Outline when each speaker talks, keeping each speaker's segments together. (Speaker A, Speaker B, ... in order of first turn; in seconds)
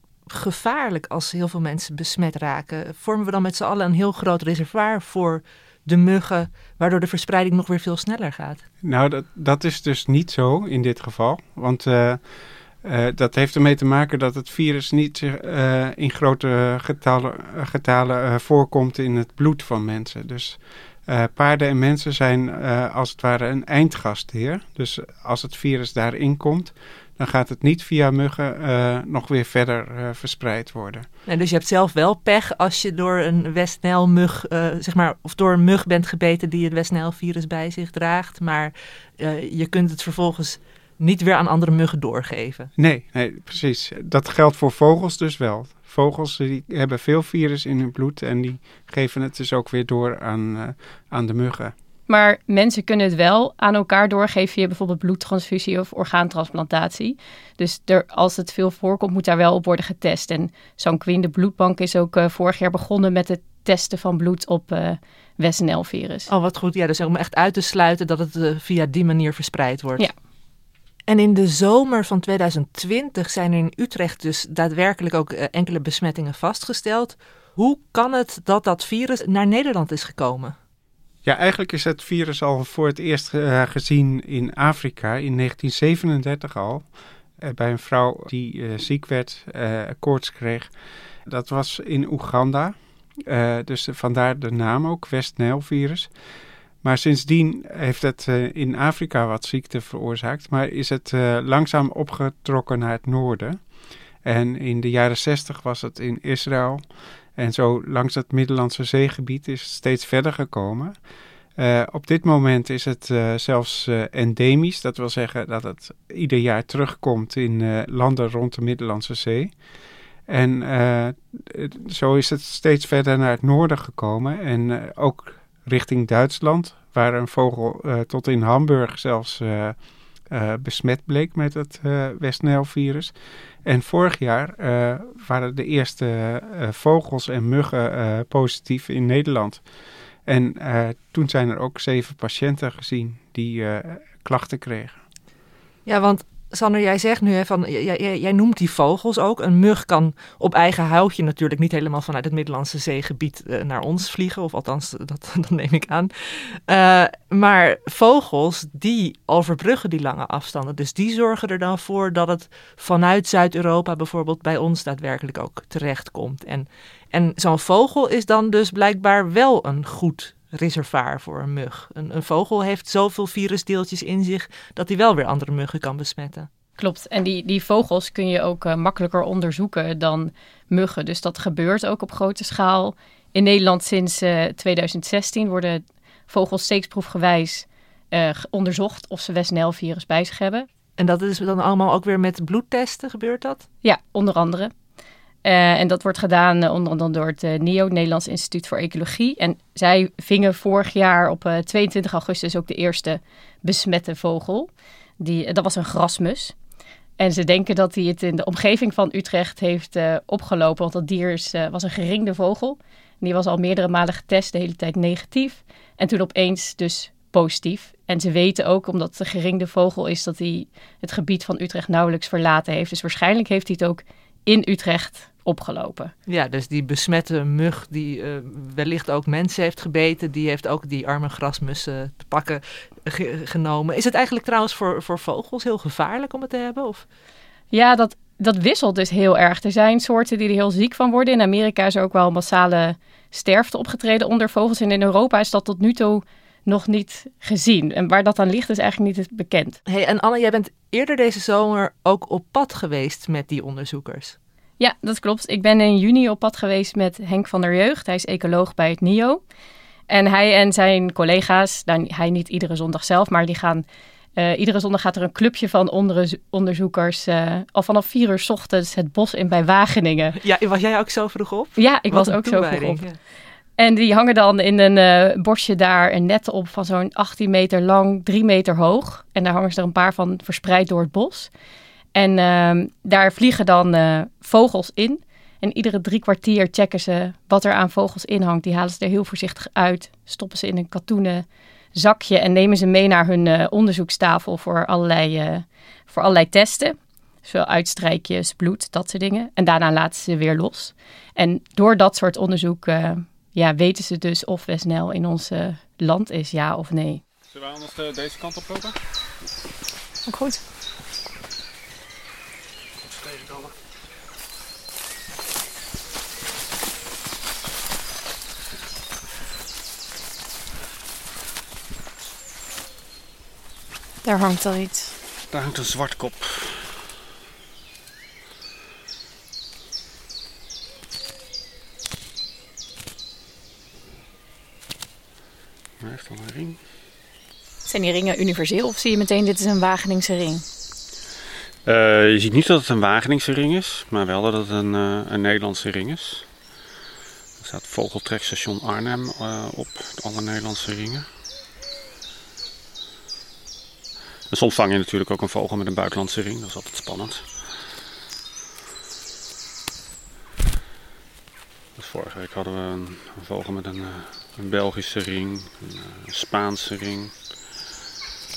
Speaker A: 0.3-8.6, 31.2-42.7, 66.3-70.1, 71.1-80.5, 145.8-176.5, 191.0-193.6, 226.2-237.0, 249.8-254.3, 270.4-273.2
Speaker B: 8.8-31.1, 42.8-51.7, 81.2-90.7, 91.2-96.1, 96.8-103.7, 104.2-111.0, 111.5-119.6, 120.3-139.7, 140.2-145.0
Speaker C: 52.1-66.3, 176.8-190.7, 193.8-194.7, 195.4-204.7, 205.2-206.5, 207.2-226.1, 237.7-249.8, 254.8-259.4, 260.1-263.8, 264.4-270.4, 271.8-273.1, 273.8-281.5, 282.1-307.2, 310.2-310.6, 324.2-325.1, 337.9-340.6
Speaker D: 307.5-309.0, 313.2-313.7, 325.5-327.0, 336.0-336.8, 341.8-346.5, 347.6-351.3, 354.5-357.7, 361.9-367.4